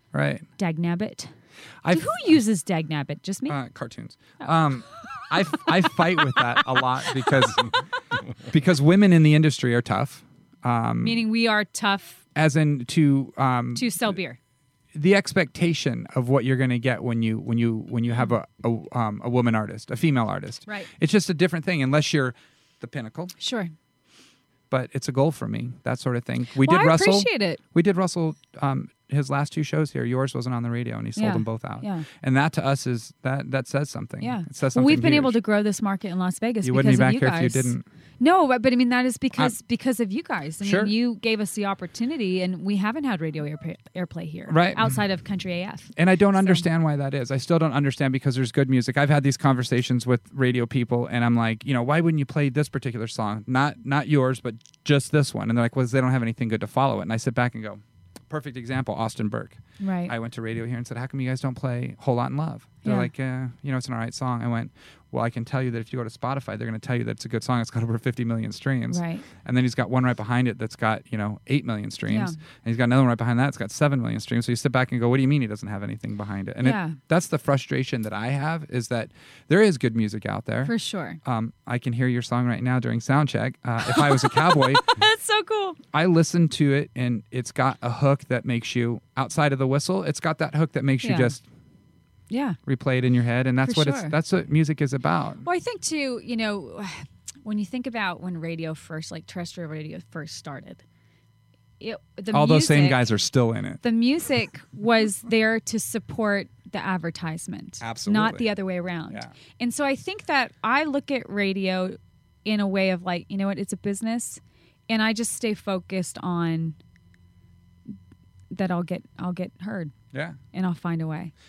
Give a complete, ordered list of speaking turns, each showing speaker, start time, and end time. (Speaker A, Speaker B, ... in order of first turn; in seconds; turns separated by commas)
Speaker A: 0.1-0.5, Speaker B: 0.6-1.3, Speaker A: 1.8-2.1, Speaker B: 1.9-3.6, Speaker A: 3.5-7.8, Speaker B: 5.2-5.6, Speaker B: 6.4-7.8, Speaker A: 8.4-11.2, Speaker B: 11.0-12.2, Speaker A: 12.4-14.2, Speaker B: 13.8-14.4, Speaker A: 14.9-23.4, Speaker B: 23.4-23.7, Speaker A: 24.7-35.4, Speaker B: 26.6-27.6, Speaker B: 31.2-32.1, Speaker B: 34.2-46.6, Speaker A: 36.6-37.8, Speaker A: 40.6-40.9, Speaker A: 44.5-45.0, Speaker A: 46.0-84.9, Speaker B: 59.8-60.1, Speaker B: 68.9-69.2, Speaker B: 72.1-72.4, Speaker B: 76.6-77.0, Speaker B: 80.6-81.2, Speaker B: 83.8-85.8, Speaker A: 85.9-91.4, Speaker B: 91.0-91.4, Speaker B: 92.3-92.6, Speaker A: 92.7-95.4, Speaker B: 93.6-94.2, Speaker B: 95.4-100.8, Speaker B: 101.8-103.0, Speaker A: 102.3-103.8, Speaker B: 103.8-116.8, Speaker A: 107.8-108.5, Speaker B: 118.5-119.9, Speaker A: 120.1-120.4, Speaker B: 120.5-121.3